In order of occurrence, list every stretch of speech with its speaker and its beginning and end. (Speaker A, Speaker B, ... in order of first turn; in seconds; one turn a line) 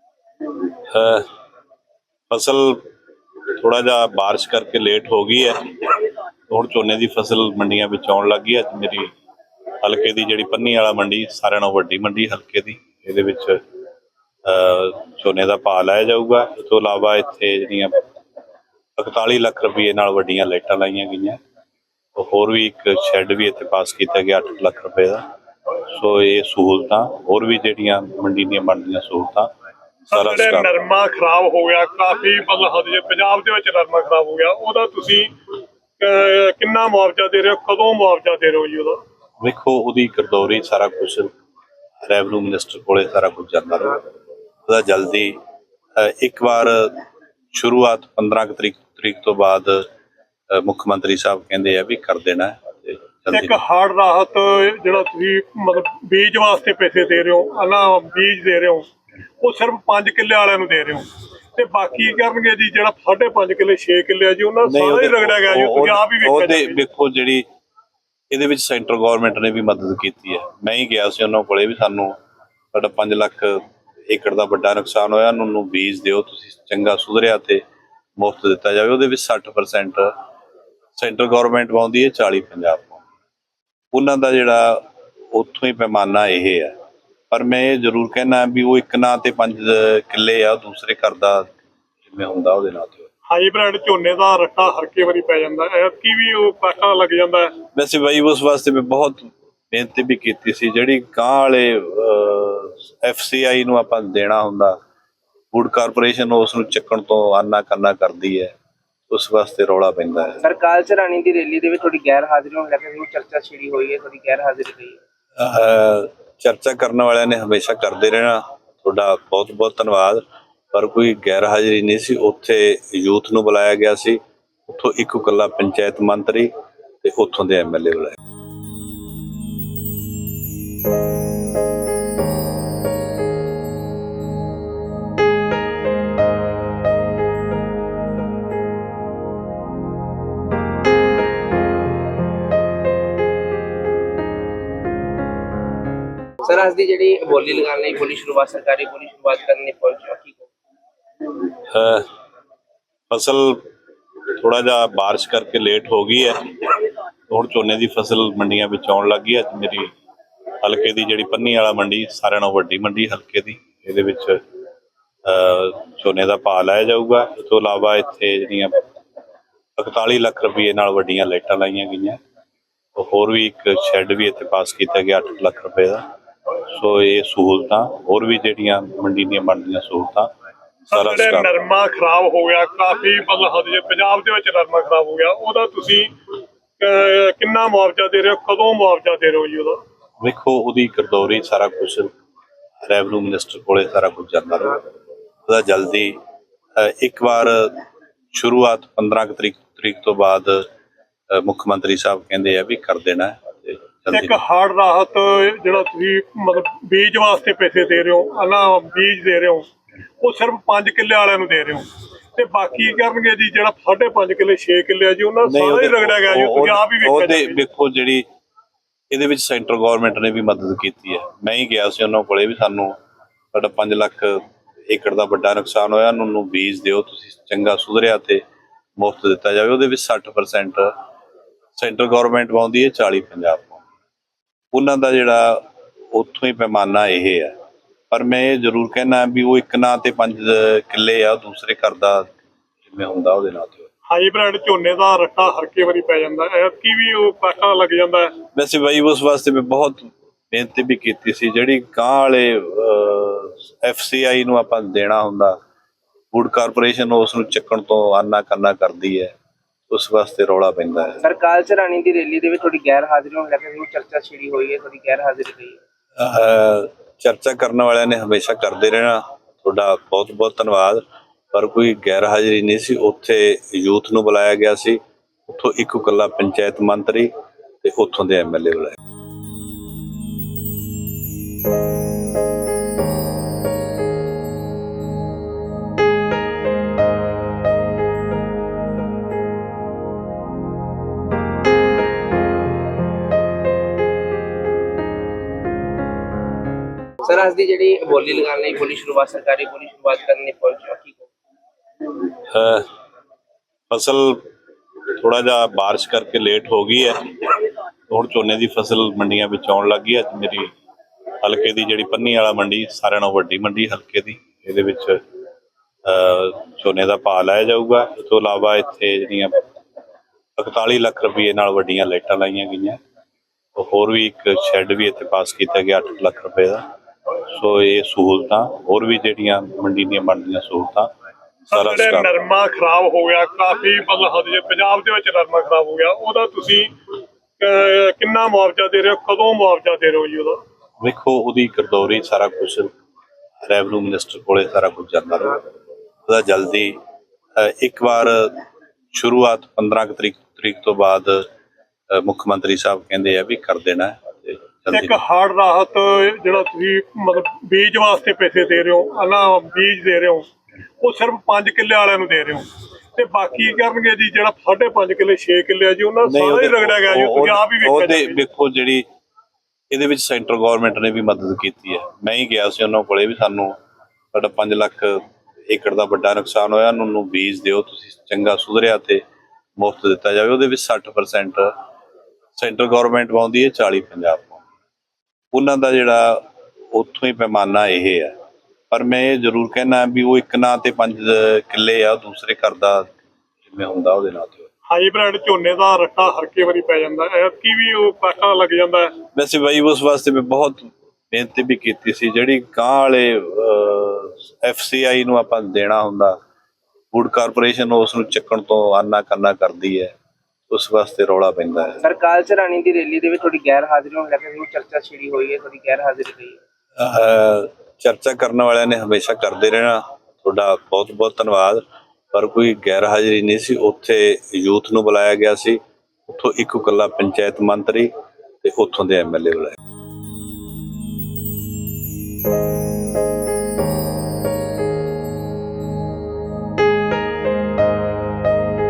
Speaker A: 0.9-1.3
Speaker A: 2.3-2.9
Speaker A: 3.5-9.1
Speaker A: 9.8-13.6
Speaker A: 14.4-18.0
Speaker A: 19.0-21.4
Speaker A: 22.2-25.2
Speaker A: 25.9-29.5
Speaker B: 30.1-35.3
Speaker A: 30.1-30.7
Speaker B: 36.0-39.0
Speaker A: 39.4-41.3
Speaker A: 42.0-44.0
Speaker A: 44.7-45.4
Speaker A: 46.0-49.9
Speaker A: 50.5-53.6
Speaker B: 53.3-58.9
Speaker B: 59.4-66.8
Speaker A: 64.7-67.5
Speaker A: 68.3-72.2
Speaker A: 72.7-77.6
Speaker A: 78.2-80.1
Speaker A: 81.0-83.1
Speaker A: 83.9-86.8
Speaker A: 87.3-91.5
Speaker A: 92.1-93.1
Speaker B: 93.3-97.5
Speaker A: 97.7-104.8
Speaker A: 105.5-108.5
Speaker A: 109.1-110.4
Speaker C: 110.4-115.0
Speaker A: 115.4-126.5
Speaker A: 127.0-128.2
Speaker C: 146.4-150.5
Speaker A: 151.7-152.1
Speaker A: 153.1-153.7
Speaker A: 154.3-159.9
Speaker A: 160.6-164.4
Speaker A: 165.2-168.8
Speaker A: 169.8-172.2
Speaker A: 173.0-176.0
Speaker A: 176.7-180.3
Speaker A: 180.9-181.5
Speaker B: 180.9-186.1
Speaker B: 186.8-189.8
Speaker A: 190.2-192.1
Speaker A: 192.8-194.8
Speaker A: 195.5-196.2
Speaker A: 196.8-200.7
Speaker A: 201.3-204.4
Speaker B: 204.1-209.7
Speaker B: 210.2-217.6
Speaker A: 215.5-218.3
Speaker A: 219.1-223.0
Speaker A: 223.5-228.4
Speaker A: 229.0-230.9
Speaker A: 231.8-233.9
Speaker A: 234.7-237.6
Speaker A: 238.1-242.3
Speaker A: 242.9-243.9
Speaker B: 244.1-248.3
Speaker A: 248.5-255.6
Speaker A: 256.3-259.3
Speaker A: 259.9-261.2
Speaker C: 261.2-265.8
Speaker A: 266.2-277.3
Speaker A: 277.8-278.9
Speaker C: 297.2-301.3
Speaker A: 302.5-302.9
Speaker A: 303.9-304.5
Speaker A: 305.1-310.7
Speaker A: 311.4-315.2
Speaker A: 316.1-319.6
Speaker A: 320.6-323.0
Speaker A: 323.8-326.8
Speaker A: 327.5-331.1
Speaker A: 331.7-332.3
Speaker B: 331.7-336.9
Speaker B: 337.6-340.6
Speaker A: 341.0-342.9
Speaker A: 343.6-345.6
Speaker A: 346.3-347.0
Speaker A: 347.6-351.5
Speaker A: 352.1-355.2
Speaker B: 354.9-360.5
Speaker B: 361.0-368.4
Speaker A: 366.3-369.1
Speaker A: 369.9-373.8
Speaker A: 374.3-379.2
Speaker A: 379.8-381.7
Speaker A: 382.6-384.7
Speaker A: 385.5-388.4
Speaker A: 388.9-393.1
Speaker A: 393.7-394.7
Speaker B: 394.9-399.1
Speaker A: 399.3-406.4
Speaker A: 407.1-410.1
Speaker A: 410.7-412.0
Speaker C: 412.0-416.6
Speaker A: 417.0-428.1
Speaker A: 428.6-429.8